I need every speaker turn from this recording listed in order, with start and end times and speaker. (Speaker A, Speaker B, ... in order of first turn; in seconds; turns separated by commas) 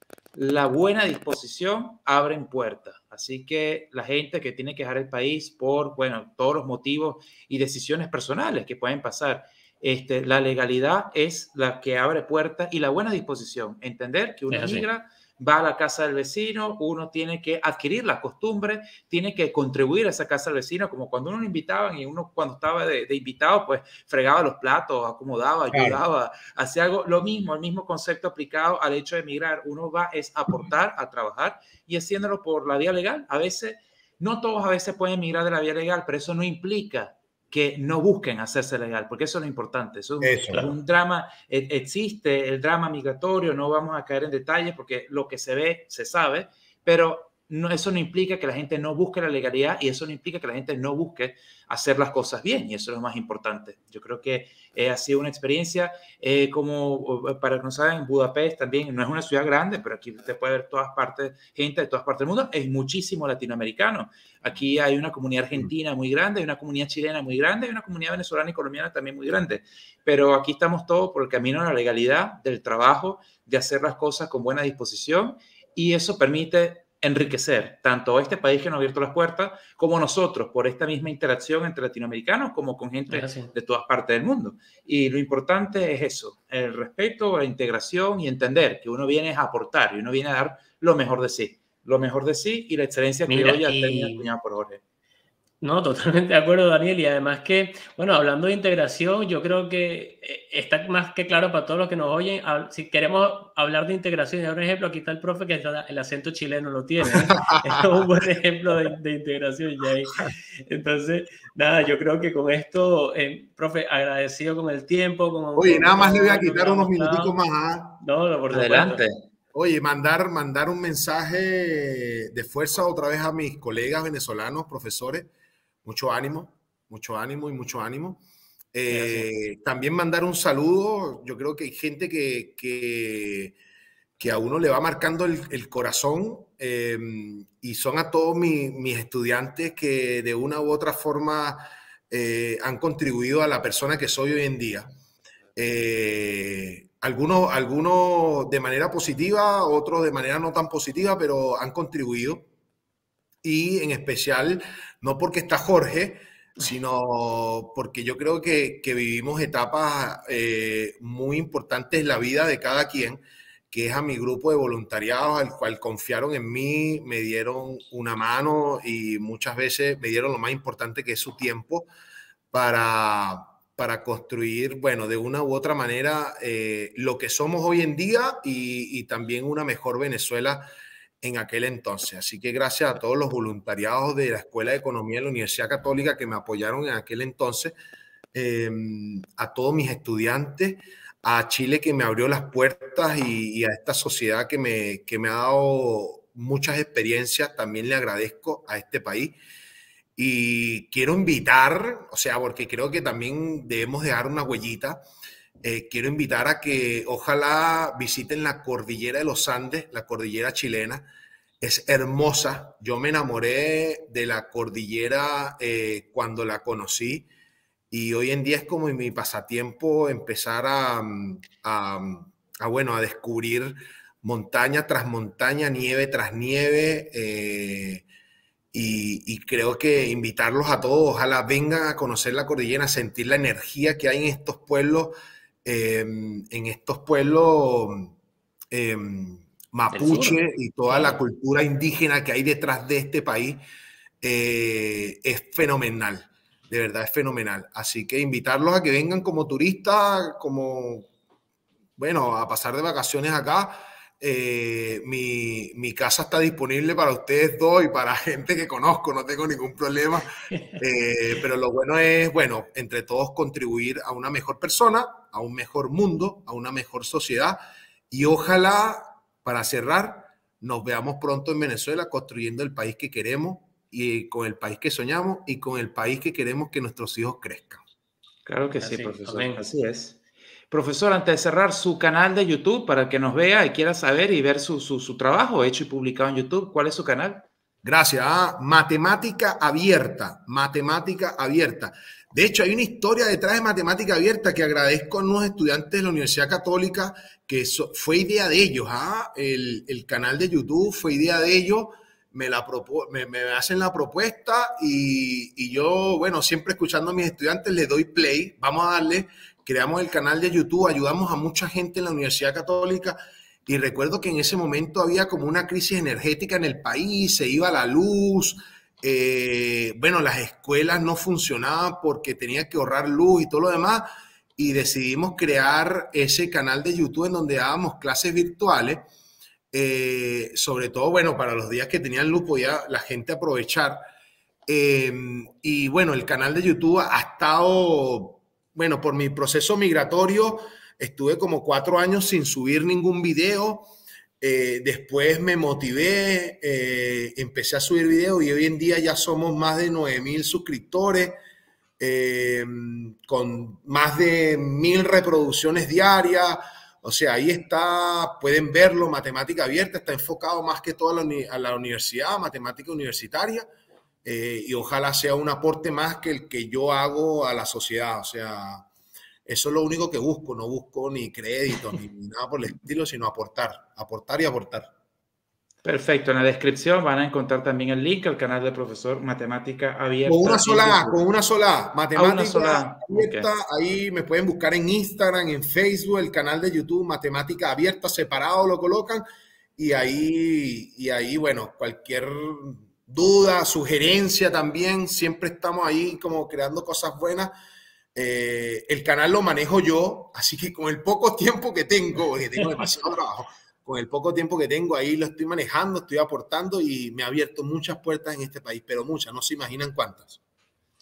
Speaker A: 0.3-94.8, Speaker B: 14.5-14.9, Speaker C: 25.7-26.0, Speaker C: 40.2-40.7, Speaker B: 83.1-83.5, Speaker B: 93.3-94.3, Speaker B: 95.6-117.3, Speaker C: 107.3-107.8, Speaker C: 115.6-118.0, Speaker B: 118.0-119.0, Speaker A: 118.5-119.2, Speaker C: 119.5-125.3, Speaker C: 125.8-128.2, Speaker C: 128.7-133.5, Speaker B: 128.9-129.3, Speaker C: 134.2-144.9, Speaker C: 145.6-152.5, Speaker C: 153.4-171.9, Speaker C: 172.5-180.7, Speaker C: 181.2-187.7, Speaker C: 188.3-199.4, Speaker C: 200.2-205.0, Speaker C: 205.6-211.1, Speaker C: 211.6-217.3, Speaker C: 217.9-228.0, Speaker C: 228.7-235.1, Speaker C: 235.6-238.1, Speaker C: 238.7-243.6, Speaker B: 239.9-241.2, Speaker C: 244.2-251.1, Speaker C: 252.0-267.6, Speaker B: 260.5-260.8, Speaker C: 268.1-277.8, Speaker A: 278.4-280.2, Speaker B: 278.8-279.6, Speaker A: 280.7-287.4, Speaker C: 287.8-329.0, Speaker C: 329.7-334.0, Speaker C: 334.7-343.9, Speaker C: 344.4-351.3, Speaker C: 352.0-363.6, Speaker C: 364.2-368.9, Speaker C: 369.4-374.9, Speaker A: 375.8-381.2, Speaker C: 380.2-389.2, Speaker A: 382.1-383.5, Speaker C: 389.8-397.5, Speaker C: 398.1-410.4